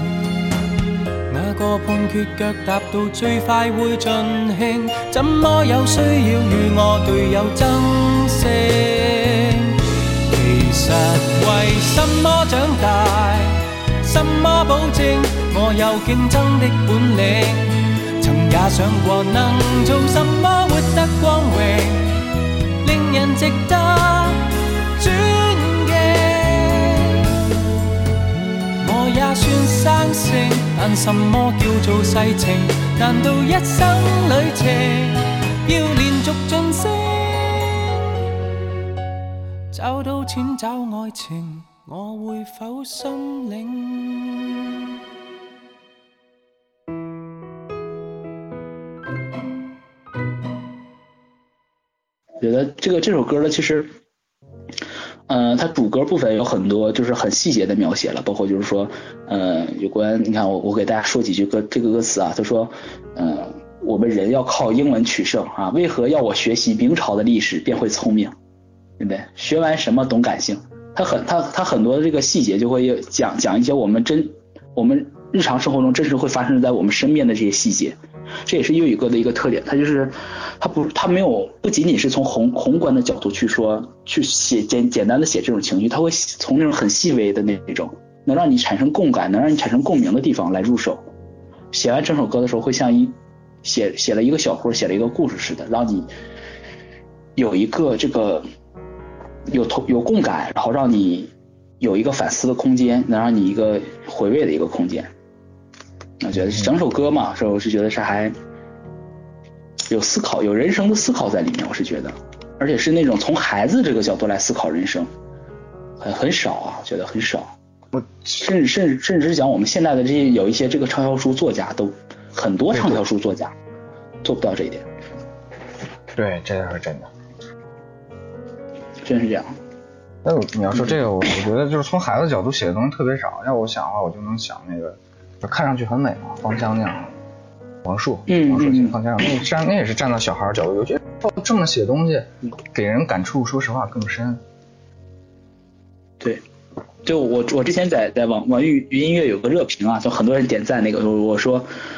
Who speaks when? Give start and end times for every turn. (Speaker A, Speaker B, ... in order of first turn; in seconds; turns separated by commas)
Speaker A: 1.3-22.2, Speaker A: 22.8-27.3, Speaker A: 28.8-37.9, Speaker A: 39.7-44.6, Speaker B: 52.4-53.9, Speaker B: 55.3-68.3, Speaker B: 69.0-78.0, Speaker B: 78.5-91.0, Speaker B: 91.7-96.1, Speaker B: 97.4-98.5, Speaker B: 99.5-105.1, Speaker B: 106.2-108.3, Speaker B: 109.9-115.1, Speaker B: 116.0-117.5, Speaker C: 117.9-118.3, Speaker B: 118.4-123.5, Speaker C: 122.7-123.0, Speaker B: 124.2-124.8, Speaker C: 126.2-127.1, Speaker B: 129.1-129.5, Speaker C: 130.2-137.2, Speaker C: 137.8-144.4, Speaker B: 138.3-139.0, Speaker B: 147.1-151.7